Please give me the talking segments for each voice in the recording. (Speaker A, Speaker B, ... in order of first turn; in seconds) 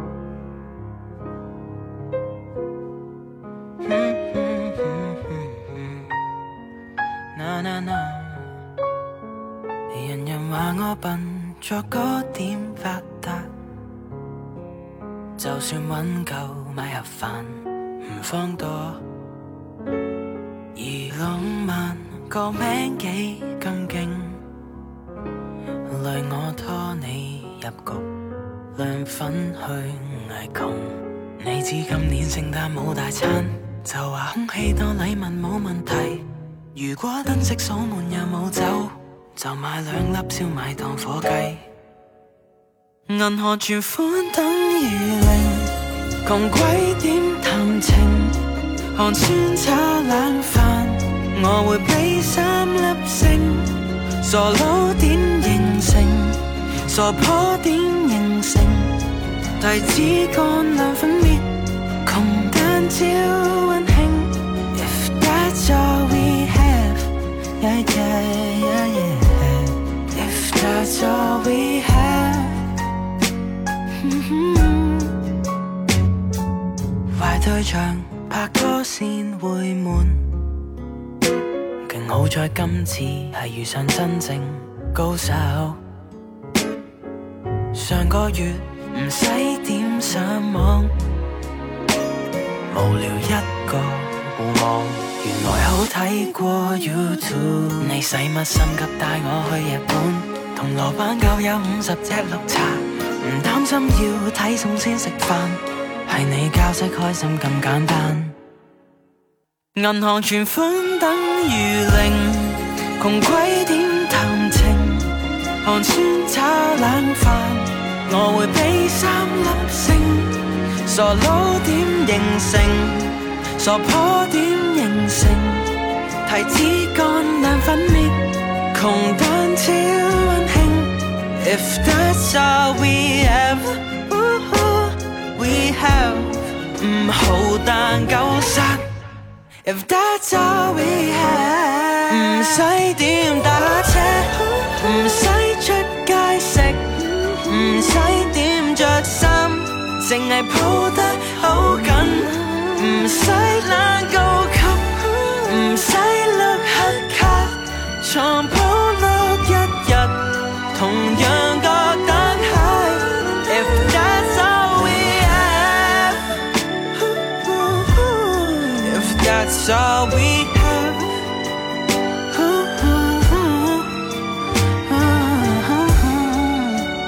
Speaker A: 3.8-6.1, 7.3-8.5, 9.9-13.5, 15.4-19.0, 20.7-24.4, 25.9-28.1, 28.7-41.7, 43.1-45.7, 46.2-48.4, 48.9-58.9, 59.6-61.5, 62.0-72.7, 74.0-75.1, 77.1-80.3, 81.8-85.8, 87.7-90.9, 92.7-108.3, 109.7-115.1, 115.6-125.7, 126.2-138.8, 139.6-166.3, 166.9-171.1, 172.3-173.9, 174.9-176.8